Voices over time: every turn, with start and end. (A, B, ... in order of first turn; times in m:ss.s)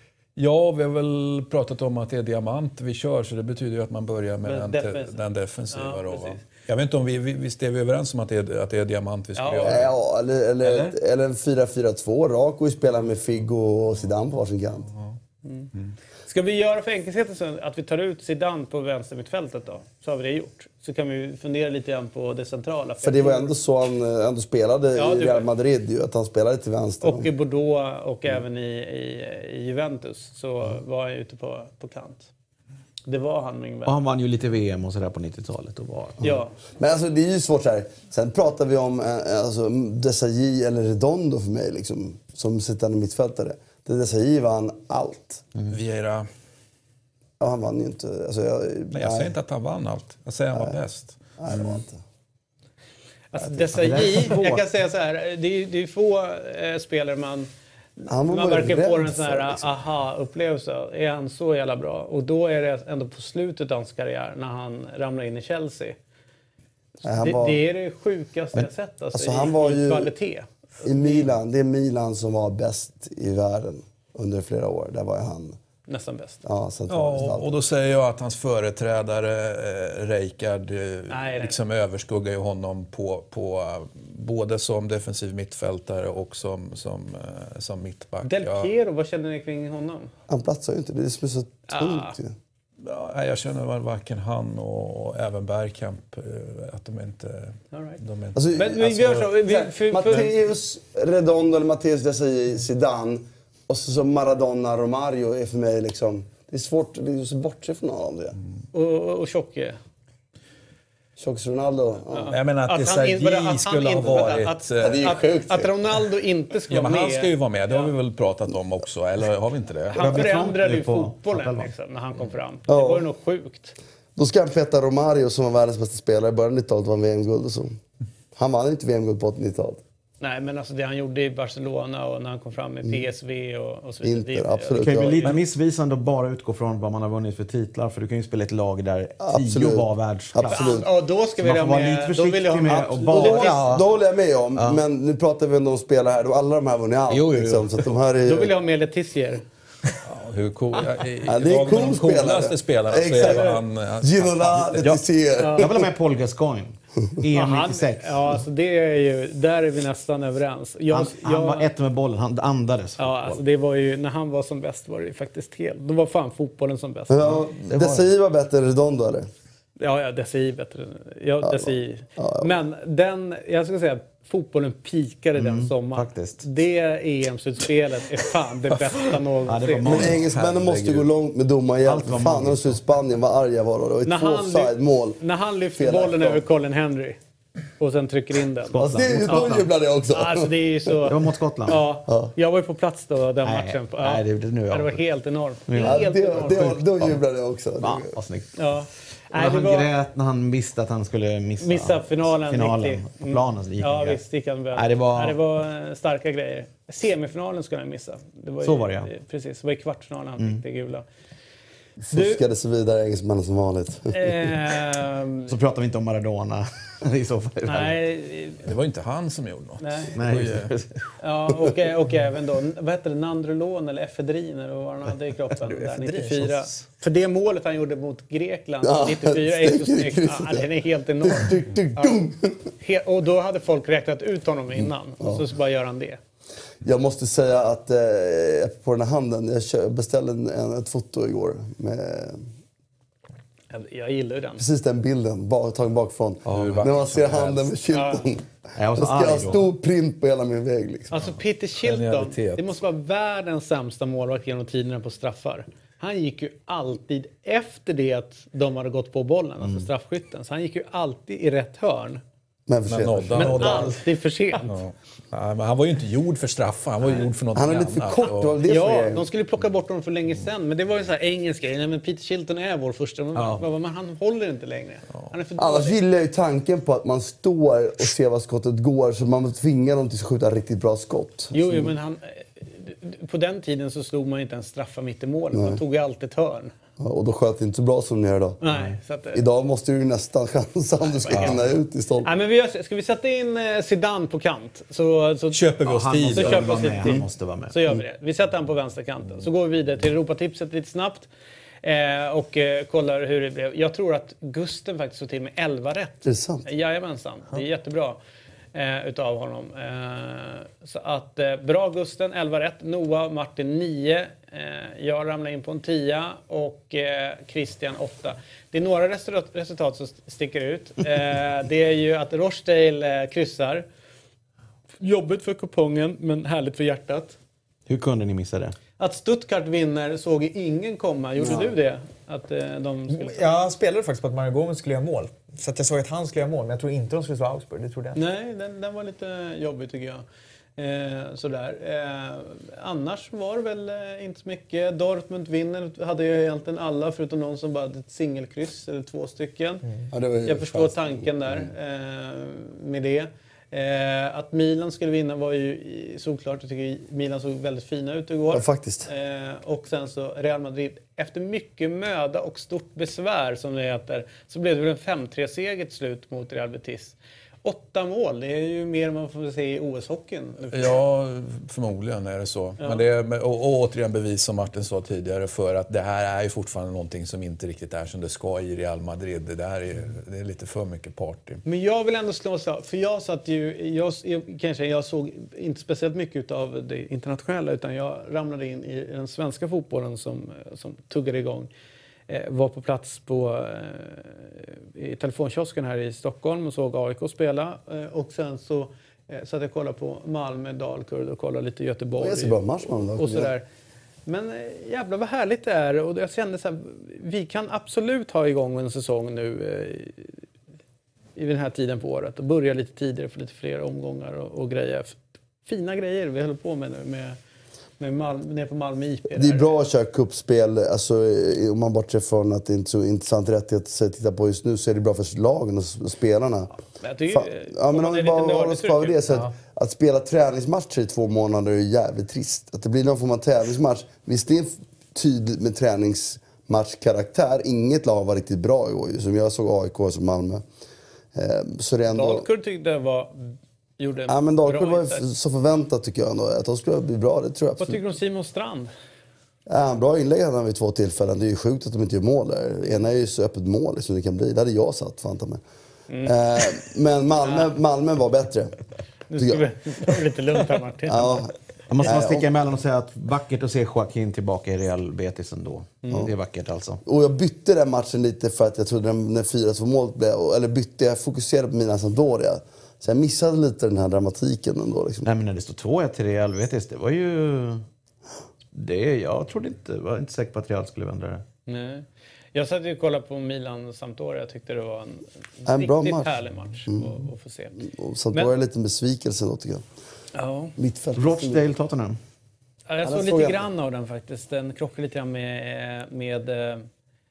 0:00.4-0:09.9 A
0:04.4-0:05.2 B
0:05.7-0:06.4 B
0:09.3-0:09.8 B
0:09.6-0:14.9 C
0:15.4-0:15.7 B
0:16.3-0:23.5 B
0:23.0-0:27.3 C
0:24.9-0:25.5 B
0:27.0-0:32.3 B
0:33.1-0:34.0 B
0:33.8-0:36.2 D
0:36.2-0:36.5 B
0:36.8-0:45.4 C
0:45.7-0:46.3 A
0:47.4-0:49.3 C
0:48.9-0:51.8 A
0:51.4-0:52.0 C
0:53.3-0:57.5 B
0:53.7-0:54.6 D
0:58.1-0:59.7 C
0:58.2-1:06.0 B
1:07.0-1:07.6 C
1:07.2-1:11.2 B
1:09.1-1:10.1 C
1:10.8-1:15.6 C
1:15.9-1:16.4 B
1:16.4-1:17.5 C
1:16.9-1:28.7 A
1:21.1-1:21.6 B
1:28.2-1:30.1 B
1:30.3-1:32.3 C
1:31.7-1:32.2 B
1:32.8-1:38.5 A
1:37.7-1:38.0 B
1:38.3-1:48.4 C
1:38.5-1:40.3 B
1:48.7-1:49.8 B
1:51.2-1:52.3 C
1:52.1-1:57.9 B
1:52.3-1:55.0 A
1:54.8-1:55.8 C
1:56.7-2:00.2 A
1:59.9-2:03.8 B
2:00.0-2:01.7 D
2:02.7-2:03.1 C
2:04.2-2:07.8 C
2:08.3-2:09.8 C
2:10.2-2:15.4 B
2:14.0-2:15.3 C
2:14.8-2:20.8 D
2:19.2-2:20.8 C
2:20.5-2:23.6 B
2:21.4-2:23.8 D
2:22.7-2:28.5 C
2:24.6-2:24.8 D
2:27.1-2:27.7 D
2:28.2-2:29.4 B
2:30.0-2:35.0 A
2:31.2-2:35.9 C
2:33.2-2:33.5 B
2:35.4-2:35.7 B
2:35.5-2:38.3 D
2:37.3-2:41.7 B
2:40.9-2:43.4 D
2:43.0-2:47.4 B
2:47.1-2:49.3 C
2:47.7-2:48.0 D
2:49.8-3:00.1 B
2:51.4-2:52.5 C
2:55.4-2:56.4 D
2:59.4-3:00.4 D
2:59.8-3:05.2 C
3:00.1-3:01.0 A
3:01.8-3:02.8 D
3:04.0-3:07.2 B
3:05.8-3:06.4 C
3:07.8-3:09.6 B
3:08.7-3:09.7 D
3:08.8-3:10.5 C
3:10.1-3:11.2 B
3:11.0-3:11.8 D
3:11.7-3:16.8 B
3:13.4-3:15.0 D
3:15.7-3:17.2 D
3:15.8-3:18.1 C
3:17.8-3:18.6 D
3:18.6-3:19.9 B
3:19.3-3:24.2 D
3:21.6-3:31.0 B
3:24.7-3:25.4 D
3:28.6-3:29.1 D
3:32.0-3:34.5 C
3:32.1-3:32.4 B
3:34.1-3:35.6 B
3:35.5-3:38.0 D
3:37.6-3:38.6 B
3:38.6-3:40.7 A
3:39.8-3:40.1 B
3:40.1-3:41.1 D
3:41.2-3:52.2 B
3:45.6-3:46.5 E
3:48.8-3:50.7 C
3:51.2-3:52.6 C
3:52.8-3:56.2 B
3:56.8-4:02.5 C
4:03.7-4:04.6 B
4:04.6-4:11.2 C
4:06.4-4:07.6 A
4:07.9-4:08.2 B
4:08.8-4:09.6 D
4:11.1-4:22.2 B
4:11.8-4:12.8 A
4:22.7-4:24.0 C
4:22.9-4:23.9 A
4:23.4-4:24.8 B
4:24.6-4:28.5 A
4:27.5-4:29.2 C
4:28.6-4:36.0 B
4:33.4-4:33.6 D
4:35.6-4:41.9 C
4:41.5-4:46.7 B
4:45.5-4:45.8 C
4:47.0-4:48.6 C
4:48.6-4:49.4 B
4:49.3-4:52.3 C
4:51.3-4:51.6 D
4:52.2-5:01.3 B
4:55.5-4:56.9 A
4:55.8-4:57.7 D
5:01.8-5:08.2 B
5:06.2-5:06.6 C
5:08.7-5:23.8 B
5:25.0-5:27.4 B
5:27.9-5:28.8 D
5:29.0-5:33.4 B
5:31.4-5:31.7 C
5:33.1-5:38.2 E
5:38.1-5:40.2 B
5:40.8-5:49.8 B
5:50.1-5:51.7 C
5:50.4-6:11.0 B
5:58.5-5:59.1 C
6:10.7-6:21.6 A
6:21.6-6:31.7 B
6:32.3-6:43.6 B
6:42.2-6:43.5 C
6:44.2-6:50.4 B
6:51.4-6:57.4 B
6:58.0-6:59.7 B
6:59.3-7:06.7 C
7:07.0-7:09.2 B
7:07.3-7:20.6 C
7:21.3-7:22.4 C
7:22.1-7:25.2 B
7:24.3-7:28.0 C
7:27.8-7:28.9 B
7:29.7-7:35.6 C
7:36.1-7:36.8 B
7:36.2-7:38.8 C
7:37.4-7:37.7 B
7:39.3-7:41.4 B
7:39.4-7:39.7 C
7:41.1-7:42.5 C
7:41.9-7:47.0 D
7:47.0-7:55.3 C
7:55.2-7:57.8 D
7:58.7-8:01.4 D
8:01.6-8:08.5 B
8:05.6-8:06.3 C
8:06.9-8:07.2 C
8:07.8-8:09.9 C
8:10.3-8:10.7 B
8:10.8-8:11.6 C
8:11.2-8:12.2 D
8:12.9-8:16.9 B
8:13.0-8:13.6 C